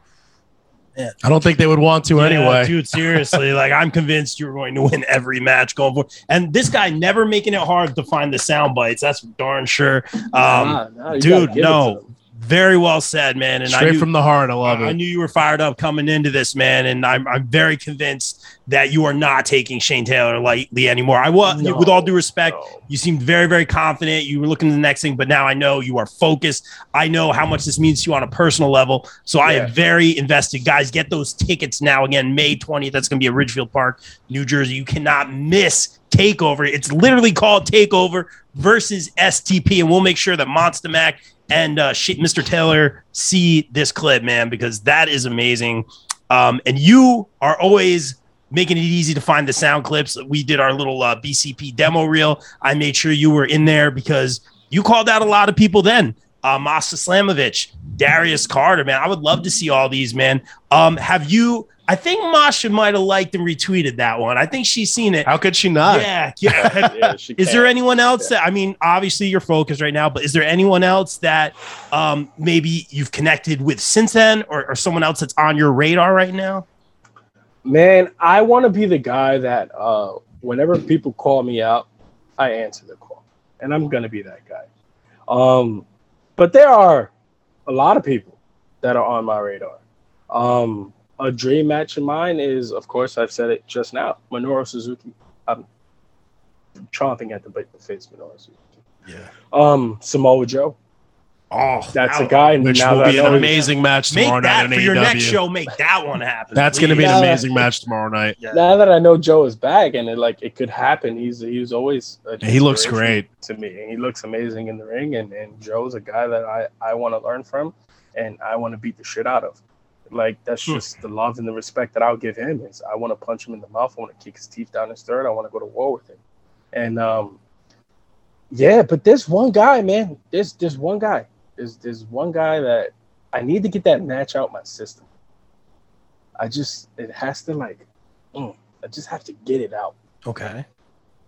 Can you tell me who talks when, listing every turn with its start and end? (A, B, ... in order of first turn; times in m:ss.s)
0:01.2-0:03.4 A
0:02.2-0:14.1 B
0:10.4-0:12.1 C
0:13.7-0:15.0 A
0:14.6-1:05.3 B
0:21.4-0:22.8 C
0:29.4-0:29.7 C
1:05.2-1:06.7 A
1:05.8-1:16.7 B
1:06.6-1:08.3 C
1:17.6-1:24.7 C
1:25.3-1:25.8 C
1:26.4-1:27.1 C
1:27.7-1:29.8 C
1:30.3-1:35.7 C
1:36.9-1:38.6 C
1:39.5-1:40.8 C
1:41.5-1:47.4 B
1:41.9-1:43.6 C
1:42.6-1:45.4 A
1:46.6-1:48.4 A
1:46.9-1:47.6 C
1:48.5-2:06.2 C
1:52.4-1:53.3 A
2:06.7-2:07.4 C
2:08.5-2:15.0 C
2:16.4-2:20.0 C
2:20.2-2:20.6 B